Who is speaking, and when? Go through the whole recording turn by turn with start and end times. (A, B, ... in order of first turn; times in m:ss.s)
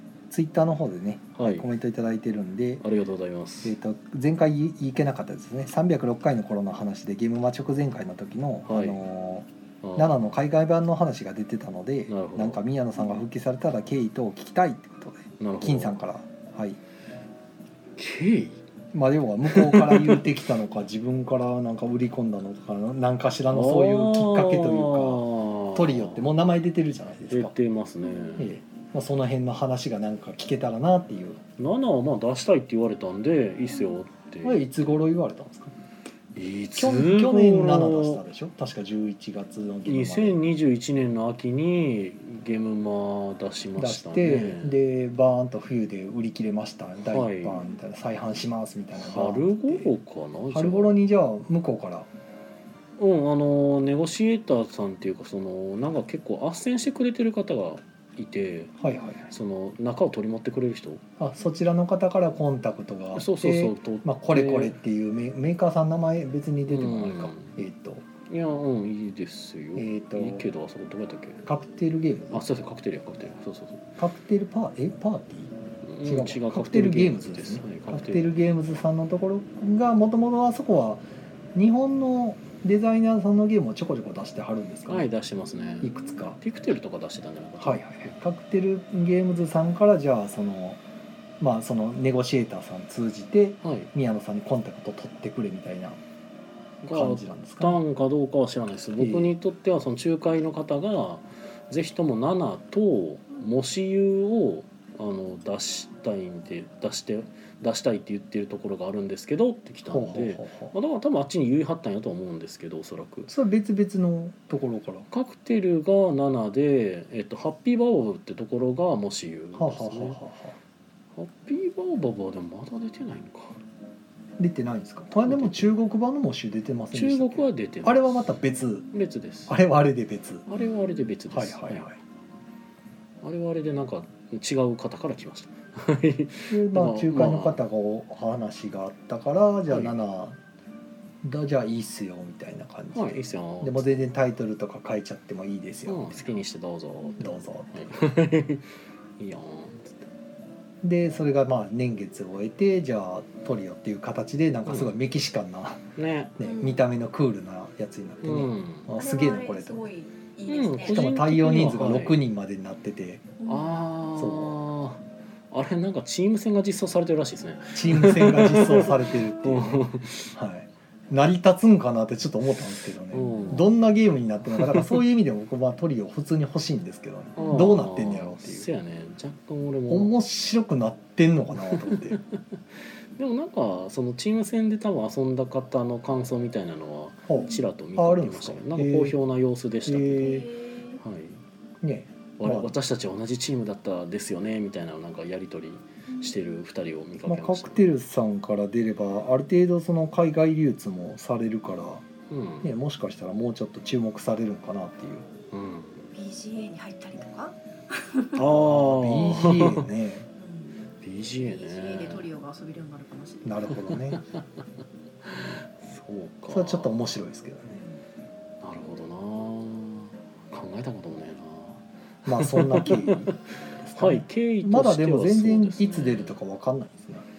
0:00.3-0:02.8 A
0:01.4-0:01.7 B
0:02.8-0:03.8 B
0:03.6-0:16.8 A
0:08.7-0:09.0 B
0:09.8-0:10.2 B
0:12.1-0:12.6 B
0:15.4-0:16.0 B
0:18.0-0:18.6 B
0:18.9-0:27.5 A
0:19.5-0:20.3 B
0:23.5-0:26.3 B
0:27.3-0:28.6 B
0:28.0-0:28.5 C
0:28.4-0:31.4 A
0:31.6-0:34.6 B
0:34.4-0:35.7 A
0:36.4-0:38.2 B
0:36.8-0:40.4 A
0:39.9-0:44.8 B
0:43.8-0:49.9 A
0:47.1-0:47.6 B
0:49.0-0:51.0 B
0:50.5-0:52.1 A
0:53.0-0:58.8 B
0:58.8-0:59.3 A
0:59.3-1:01.0 B
1:01.2-1:08.0 A
1:03.2-1:04.8 B
1:06.7-1:07.6 B
1:08.3-1:11.4 B
1:09.8-1:10.5 A
1:11.5-1:12.5 A
1:12.3-1:13.8 B
1:14.0-1:15.5 A
1:15.8-1:18.3 B
1:16.0-1:21.0 A
1:21.6-1:25.1 A
1:24.9-1:28.0 B
1:25.7-1:26.0 C
1:25.8-1:26.4 A
1:27.6-1:30.8 A
1:31.4-1:36.0 A
1:33.6-1:33.9 B
1:36.8-1:53.3 B
1:36.9-1:37.8 A
1:39.0-1:39.4 A
1:49.9-1:50.7 A
1:53.3-1:55.1 A
1:55.1-2:00.2 B
1:59.6-2:00.6 A
2:01.2-2:03.6 B
2:04.4-2:08.9 A
2:05.2-2:05.7 B
2:06.9-2:08.3 B
2:08.9-2:09.6 B
2:09.5-2:10.5 A
2:10.5-2:11.9 B
2:11.3-2:12.0 A
2:13.2-2:17.6 B
2:16.5-2:20.4 A
2:19.7-2:20.0 B
2:21.2-2:26.3 A
2:22.9-2:24.0 B
2:25.9-2:30.0 B
2:27.2-2:27.9 A
2:30.8-2:35.8 A
2:34.7-2:34.9 B
2:36.0-2:36.4 B
2:36.4-2:39.9 A
2:36.4-2:36.8 C
2:38.2-2:38.9 B
2:39.0-2:41.1 C
2:40.5-2:42.2 B
2:40.8-2:43.3 A
2:43.4-2:43.7 C
2:43.5-2:45.0 B
2:44.2-2:44.6 A
2:45.5-2:50.3 B
2:47.8-2:58.7 A
2:53.1-2:53.7 B
2:54.6-2:54.9 B
2:57.4-3:00.1 B
2:59.9-3:02.2 A
3:01.7-3:02.4 B
3:03.2-3:10.5 B
3:07.3-3:09.2 A
3:09.9-3:10.5 A
3:10.2-3:11.0 C
3:11.0-3:11.4 B
3:11.8-3:12.7 A
3:12.4-3:17.9 B
3:16.1-3:16.4 C
3:17.3-3:22.0 A
3:22.3-3:22.7 B
3:22.6-3:25.3 A
3:25.5-3:26.1 B
3:26.1-3:28.4 C
3:28.4-3:29.9 B
3:28.4-3:30.3 A
3:30.4-3:33.8 C
3:31.0-3:32.3 B
3:33.4-3:34.2 A
3:33.9-3:34.4 B
3:35.3-3:37.1 B
3:36.5-3:37.8 A
3:38.6-3:43.4 B
3:42.3-3:47.3 A
3:44.0-3:46.4 B